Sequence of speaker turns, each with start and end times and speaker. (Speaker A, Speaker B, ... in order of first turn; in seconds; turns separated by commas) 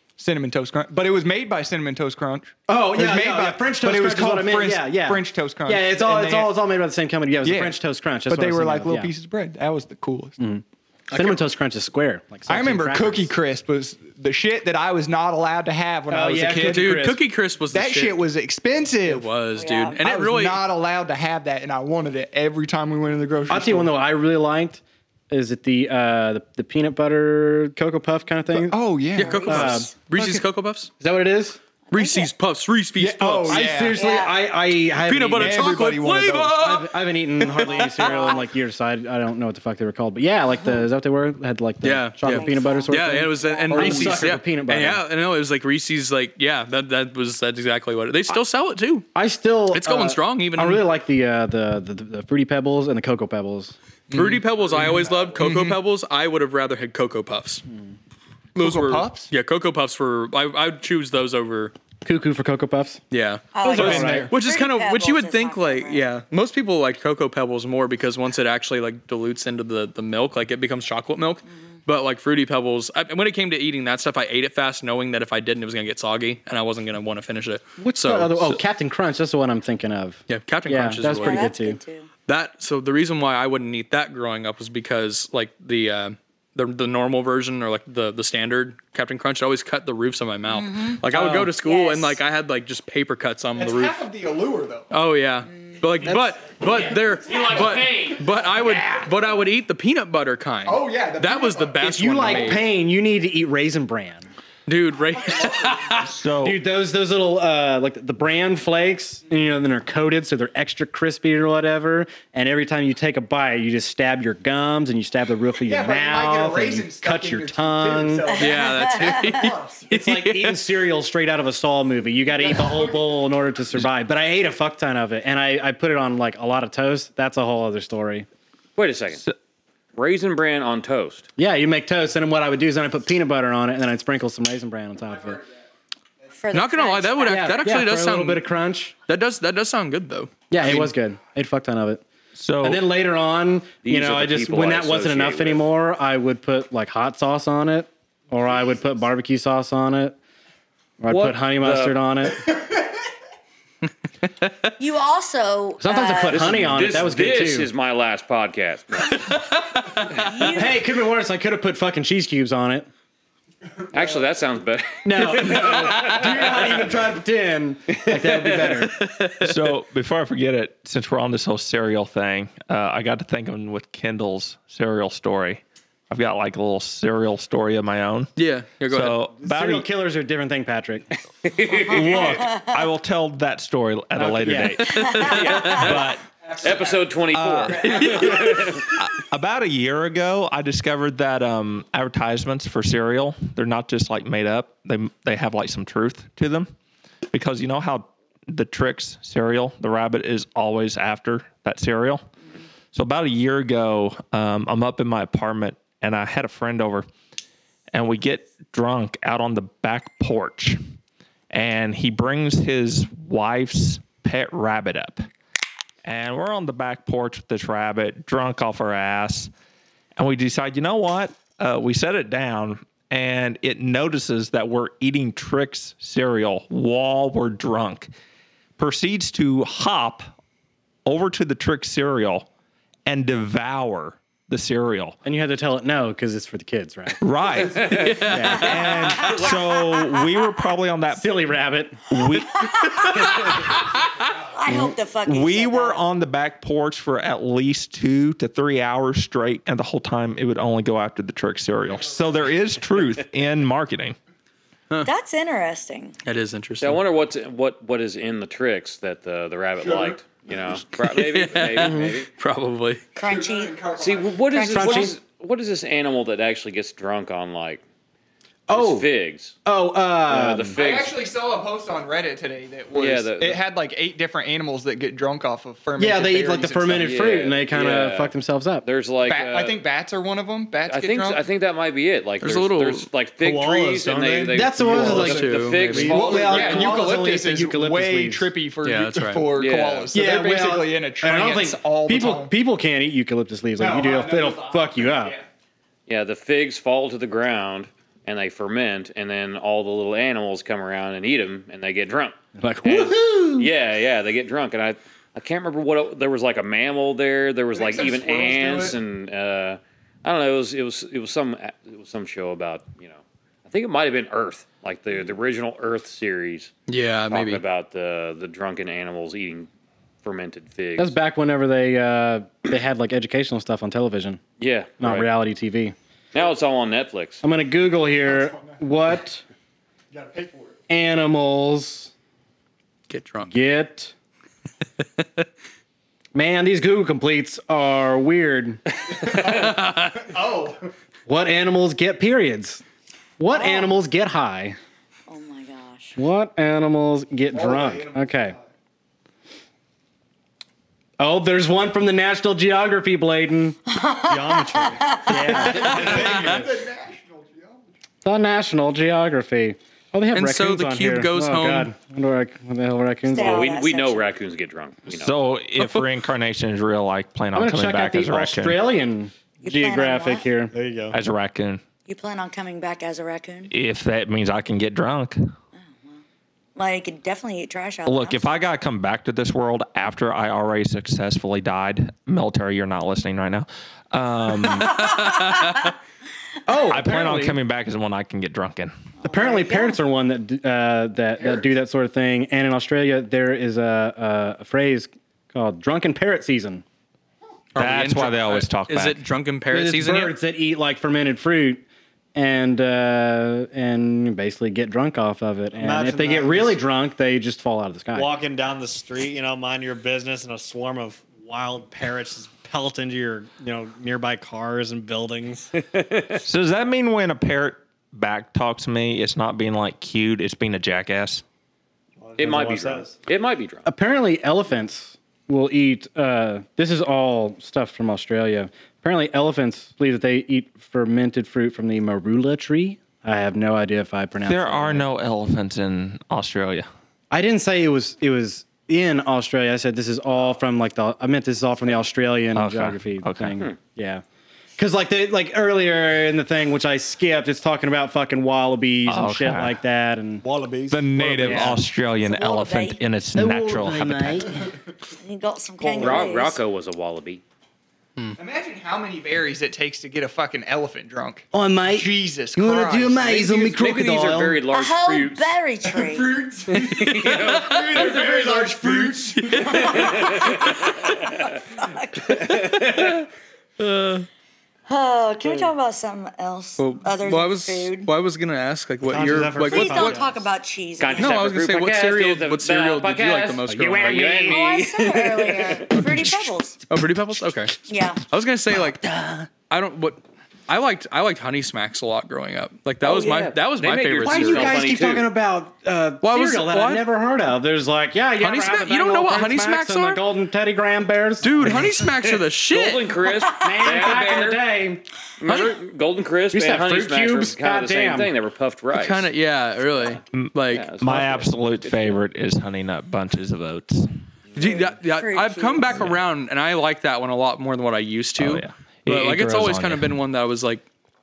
Speaker A: 0.2-6.5, Speaker B: 2.7-9.1, Speaker A: 7.4-10.4, Speaker B: 10.4-13.3, Speaker A: 12.5-17.1, Speaker B: 16.1-17.2, Speaker C: 16.6-18.2, Speaker A: 17.7-19.3, Speaker C: 19.1-20.6, Speaker D: 19.6-20.0, Speaker A: 20.0-23.9, Speaker B: 23.5-28.8, Speaker A: 28.5-29.9, Speaker C: 29.2-30.9, Speaker D: 29.2-29.5, Speaker B: 29.4-30.4, Speaker B: 31.0-31.6, Speaker D: 31.9-32.3, Speaker C: 31.9-33.8, Speaker A: 33.0-34.0, Speaker B: 33.5-35.9, Speaker D: 33.9-34.4, Speaker C: 35.0-38.4, Speaker A: 35.3-36.6, Speaker B: 36.5-45.0, Speaker D: 37.9-38.4, Speaker C: 41.8-49.1, Speaker D: 42.2-44.0, Speaker A: 43.7-44.2, Speaker B: 49.1-53.8, Speaker C: 49.7-50.9, Speaker A: 54.1-55.8, Speaker C: 54.1-57.6, Speaker C: 58.6-61.7, Speaker A: 58.6-59.3, Speaker B: 62.0-63.0, Speaker C: 63.1-78.6, Speaker D: 63.5-66.1, Speaker B: 63.6-64.3, Speaker A: 63.7-64.3, Speaker B: 77.8-81.8, Speaker C: 80.3-81.5, Speaker D: 81.1-82.1, Speaker C: 82.3-94.1, Speaker D: 90.5-92.2, Speaker B: 91.1-91.4, Speaker A: 93.5-94.9, Speaker C: 94.9-102.6, Speaker B: 96.0-96.4, Speaker E: 97.0-98.8, Speaker A: 100.7-102.6, Speaker B: 101.8-104.3, Speaker C: 104.7-106.2, Speaker F: 106.0-106.6, Speaker B: 106.4-118.3, Speaker A: 115.7-119.9, Speaker D: 118.3-119.4, Speaker C: 118.4-120.6, Speaker B: 119.9-128.3, Speaker E: 128.8-129.3, Speaker E: 130.0-131.3, Speaker B: 131.4-135.4, Speaker D: 136.3-137.6, Speaker C: 136.5-138.4, Speaker B: 137.2-138.9, Speaker C: 139.1-140.9, Speaker B: 140.5-142.0, Speaker F: 142.3-142.9, Speaker B: 142.6-150.2, Speaker E: 143.8-145.7, Speaker B: 151.0-152.5, Speaker E: 151.1-152.0, Speaker C: 154.2-154.5, Speaker D: 154.8-156.5, Speaker B: 155.8-157.7, Speaker E: 156.3-159.4, Speaker C: 159.1-160.5, Speaker D: 160.1-160.8, Speaker B: 160.5-162.9, Speaker E: 163.9-166.7, Speaker B: 165.1-168.9, Speaker E: 167.9-168.8, Speaker C: 168.9-169.7, Speaker F: 169.4-179.9, Speaker C: 178.4-179.2, Speaker B: 179.4-181.1, Speaker E: 181.4-182.6, Speaker F: 181.8-186.2, Speaker B: 184.2-184.9, Speaker C: 184.8-185.9, Speaker E: 185.2-186.1, Speaker A: 186.5-187.1, Speaker E: 186.6-189.0, Speaker F: 187.4-187.7, Speaker C: 187.7-188.8, Speaker A: 187.7-188.2, Speaker F: 188.7-196.7, Speaker F: 197.3-202.2, Speaker F: 202.9-207.1, Speaker F: 207.9-210.8, Speaker F: 211.5-215.3, Speaker F: 216.0-219.5, Speaker F: 220.2-228.1, Speaker F: 228.8-230.3, Speaker F: 231.1-232.5, Speaker F: 233.1-235.2, Speaker B: 235.2-237.2, Speaker F: 237.2-241.4, Speaker E: 237.7-239.6, Speaker C: 237.9-238.7, Speaker B: 238.3-239.0, Speaker D: 239.2-239.5, Speaker B: 241.1-242.1, Speaker F: 242.1-242.7, Speaker D: 242.5-243.4, Speaker D: 244.5-246.0, Speaker F: 244.7-254.2, Speaker D: 255.0-256.2, Speaker C: 256.2-257.0, Speaker E: 256.8-262.3, Speaker A: 259.8-260.2, Speaker C: 260.9-263.1, Speaker B: 261.8-262.2, Speaker D: 263.2-263.8, Speaker A: 263.2-264.4, Speaker E: 264.0-267.8, Speaker D: 264.5-265.1, Speaker B: 264.7-265.2, Speaker B: 268.7-269.1, Speaker E: 268.7-269.6, Speaker B: 269.7-270.8, Speaker E: 270.3-271.1, Speaker A: 270.7-277.2, Speaker E: 272.9-273.6, Speaker B: 276.0-278.9, Speaker E: 277.0-278.3, Speaker E: 278.8-279.8, Speaker A: 279.2-281.4, Speaker E: 280.9-287.0, Speaker C: 282.4-283.1, Speaker G: 283.4-286.5, Speaker B: 284.5-288.5, Speaker C: 285.2-286.2, Speaker A: 286.1-292.5, Speaker C: 288.8-289.5, Speaker E: 289.6-290.1, Speaker B: 290.1-295.4, Speaker A: 293.8-295.4, Speaker E: 296.1-316.7, Speaker B: 302.6-303.7, Speaker A: 307.7-309.0, Speaker C: 316.9-317.6, Speaker E: 317.3-319.7, Speaker E: 320.2-321.2, Speaker B: 321.0-324.4, Speaker E: 324.6-325.3, Speaker B: 325.0-325.9, Speaker E: 326.3-327.4, Speaker B: 327.4-329.4, Speaker A: 328.3-328.8, Speaker A: 330.1-330.8, Speaker B: 330.9-332.1, Speaker C: 333.1-333.5, Speaker B: 333.5-334.1, Speaker B: 336.3-338.8, Speaker A: 339.1-340.9, Speaker C: 339.5-340.2, Speaker B: 341.3-342.8, Speaker B: 343.4-344.8, Speaker D: 343.5-343.9, Speaker D: 345.3-346.2, Speaker B: 346.2-348.6, Speaker A: 347.5-348.6, Speaker B: 351.2-353.8, Speaker D: 353.9-355.9, Speaker G: 354.3-356.3, Speaker B: 355.3-356.3, Speaker A: 355.6-357.8, Speaker B: 358.2-363.7, Speaker C: 360.3-361.9, Speaker D: 363.3-364.3, Speaker E: 363.4-365.4, Speaker F: 365.1-368.8, Speaker C: 365.8-366.1, Speaker B: 367.5-370.7, Speaker D: 369.6-370.5, Speaker G: 370.7-371.2, Speaker F: 371.1-371.8, Speaker D: 372.1-373.7, Speaker F: 373.7-375.5, Speaker D: 376.8-378.5, Speaker F: 378.1-385.1, Speaker C: 385.0-385.9, Speaker D: 385.1-385.8, Speaker B: 386.7-387.6, Speaker F: 386.9-388.9, Speaker D: 389.2-390.0, Speaker B: 389.2-396.8, Speaker C: 397.8-400.3, Speaker F: 397.8-399.2, Speaker B: 399.7-401.8, Speaker B: 402.4-408.3, Speaker G: 405.8-406.8, Speaker G: 408.1-415.7, Speaker E: 415.8-416.4, Speaker F: 416.4-421.4, Speaker G: 422.2-423.1, Speaker E: 422.4-423.9, Speaker B: 423.9-435.1, Speaker F: 434.4-436.9, Speaker B: 437.3-444.2, Speaker F: 442.5-443.6, Speaker B: 444.8-450.4, Speaker F: 449.1-449.8, Speaker G: 450.4-451.8, Speaker F: 450.9-454.4, Speaker B: 451.4-451.8, Speaker D: 452.2-453.0, Speaker B: 453.4-454.7, Speaker D: 455.2-456.6, Speaker E: 455.8-457.4, Speaker A: 458.4-463.6, Speaker B: 461.5-464.6, Speaker E: 463.5-465.6, Speaker D: 464.7-466.4, Speaker A: 465.9-469.7, Speaker E: 466.8-469.1, Speaker C: 466.9-467.8, Speaker C: 469.4-470.0, Speaker E: 469.6-471.5, Speaker D: 469.6-472.6, Speaker E: 472.3-473.3, Speaker C: 473.8-474.3, Speaker D: 474.9-478.1, Speaker C: 476.8-480.2, Speaker G: 479.1-480.4, Speaker D: 479.6-481.4, Speaker E: 481.0-486.0, Speaker C: 481.2-484.4, Speaker B: 483.7-484.6, Speaker D: 484.4-486.8, Speaker C: 486.9-489.1, Speaker D: 487.9-488.2, Speaker B: 489.0-489.5, Speaker C: 489.6-494.8, Speaker E: 493.0-495.3, Speaker B: 494.2-502.1, Speaker C: 496.2-497.1, Speaker C: 498.4-500.2, Speaker C: 501.4-503.2, Speaker E: 502.2-504.6, Speaker B: 503.6-505.0, Speaker E: 505.4-509.3, Speaker C: 505.5-505.8, Speaker B: 506.5-508.3, Speaker C: 508.9-510.9, Speaker F: 510.3-514.1, Speaker E: 510.7-512.2, Speaker C: 514.5-520.8, Speaker D: 515.0-516.0, Speaker F: 518.4-520.2